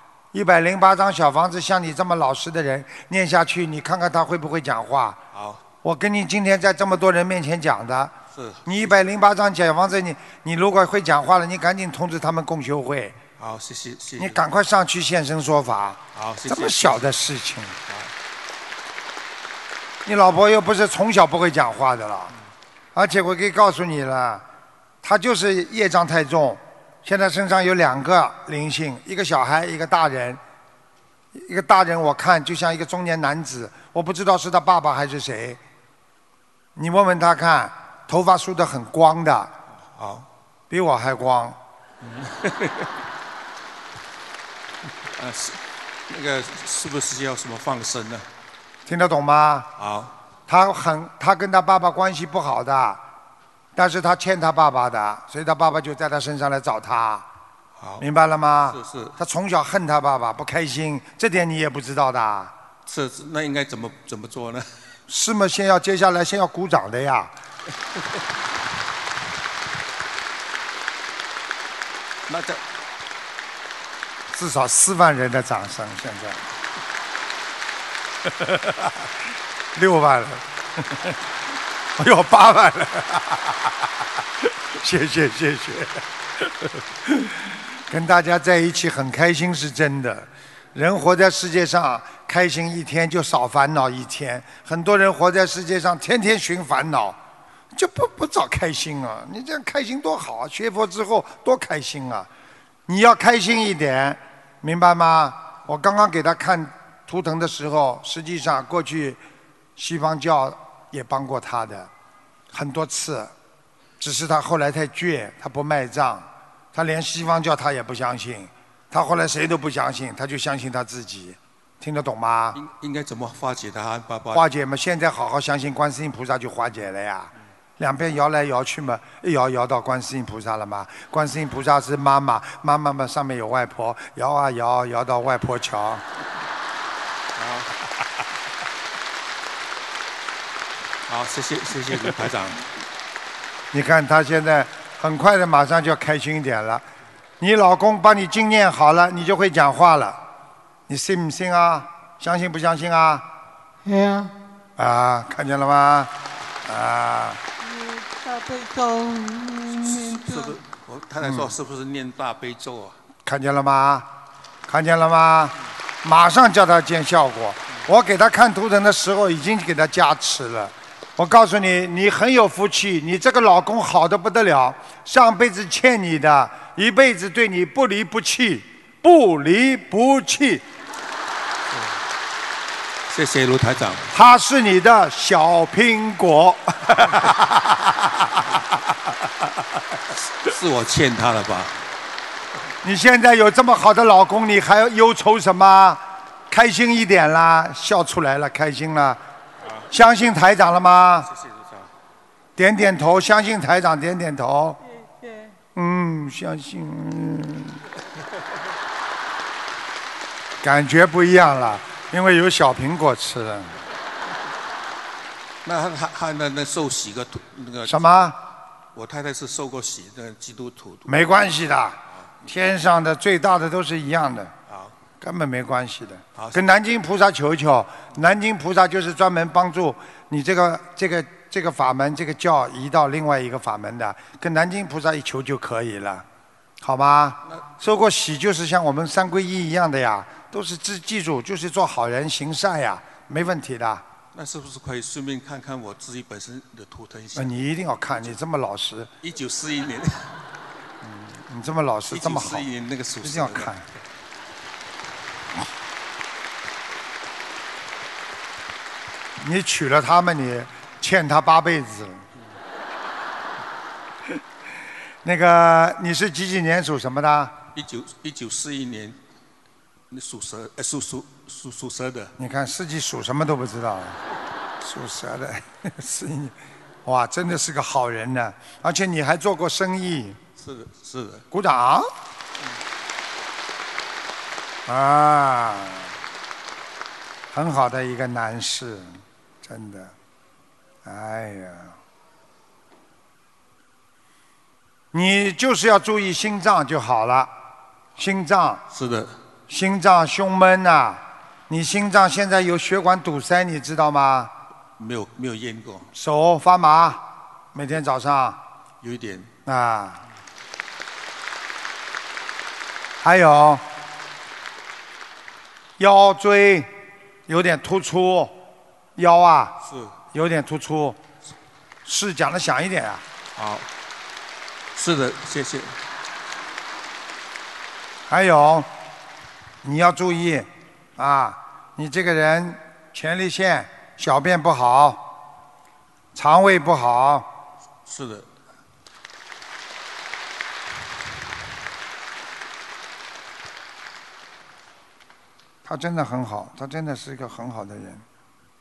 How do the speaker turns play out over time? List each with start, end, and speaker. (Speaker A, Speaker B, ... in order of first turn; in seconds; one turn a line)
Speaker A: 0.3-5.2
Speaker B: 5.3-5.6
Speaker A: 5.8-13.2
Speaker B: 8.3-8.9
Speaker B: 13.4-14.4
Speaker A: 14.2-17.8
Speaker B: 16.1-17.1
Speaker A: 20.1-22.3
Speaker A: 22.9-24.5
Speaker A: 25.0-30.4
Speaker A: 31.3-35.6
Speaker A: 36.8-39.5
Speaker B: 39.9-40.3
Speaker A: 40.7-41.6
Speaker B: 42.0-42.9
Speaker B: 45.2-48.3
Speaker A: 48.9-49.7
Speaker B: 49.8-50.1
Speaker A: 50.5-53.0
Speaker A: 53.8-57.3
Speaker B: 57.8-58.1
Speaker A: 58.0-62.6
Speaker B: 58.7-59.1
Speaker B: 62.9-64.7
Speaker A: 65.1-67.3
Speaker B: 72.3-72.6
Speaker A: 74.3-76.5
Speaker A: 78.3-78.7
Speaker A: 79.8-81.2
Speaker A: 82.0-83.7
Speaker A: 84.4-86.5
Speaker A: 87.0-97.2
Speaker A: 97.7-102.3
Speaker A: 102.9-109.2
Speaker A: 109.8-111.9
Speaker A: 112.5-113.3
Speaker A: 114.0-122.6
Speaker B: 122.5-124.4
Speaker A: 124.3-136.0
Speaker B: 137.4-137.8
Speaker B: 141.1-142.6
Speaker A: 143.7-146.8
Speaker A: 147.4-150.2
Speaker A: 150.9-153.3
Speaker C: 153.8-154.3
Speaker A: 154.8-156.1
Speaker A: 156.6-157.4
Speaker C: 157.6-160.6
Speaker B: 159.8-163.0
Speaker A: 161.2-161.6
Speaker A: 163.2-164.1
Speaker A: 164.7-180.7
Speaker B: 181.7-182.0
Speaker B: 183.1-184.1
Speaker A: 184.1-188.5
Speaker B: 190.4-191.8
Speaker A: 192.8-199.2
Speaker B: 199.6-199.9
Speaker A: 199.9-201.3
Speaker B: 201.2-201.9
Speaker A: 202.6-204.8
Speaker C: 205.1-205.5
Speaker A: 205.8-207.8
Speaker A: 210.6-213.8
Speaker B: 215.6-218.3
Speaker A: 217.8-218.4
Speaker B: 218.9-221.2
Speaker A: 221.1-224.5
Speaker B: 224.7-224.9
Speaker A: 225.2-236.3
Speaker B: 226.3-226.6
Speaker A: 236.8-244.1
Speaker B: 244.3-247.6
Speaker A: 247.3-249.1
Speaker B: 249.2-250.3
Speaker A: 251.0-253.9
Speaker B: 252.1-253.7
Speaker A: 259.4-262.2
Speaker A: 265.2-267.6
Speaker B: 267.8-269.2
Speaker B: 270.1-272.3
Speaker A: 272.4-274.2
Speaker A: 274.8-280.4
Speaker B: 280.6-281.4
Speaker A: 281.5-282.1
Speaker A: 284.9-286.1
Speaker A: 287.5-290.1
Speaker A: 291.0-292.0
Speaker A: 295.1-297.5
Speaker A: 298.2-298.9
Speaker B: 298.9-299.4
Speaker A: 299.7-304.5
Speaker B: 305.0-306.1
Speaker A: 306.1-308.6
Speaker B: 309.0-309.5
Speaker A: 309.7-310.2
Speaker A: 313.2-313.9
Speaker A: 316.0-316.9
Speaker A: 317.5-318.6
Speaker A: 319.2-319.8
Speaker B: 319.8-320.1
Speaker A: 320.3-321.2
Speaker A: 322.1-323.2
Speaker B: 323.6-323.9
Speaker B: 324.9-325.9
Speaker A: 328.3-328.9
Speaker A: 329.8-335.3
Speaker A: 336.3-337.5
Speaker B: 338.1-338.5
Speaker A: 345.9-348.2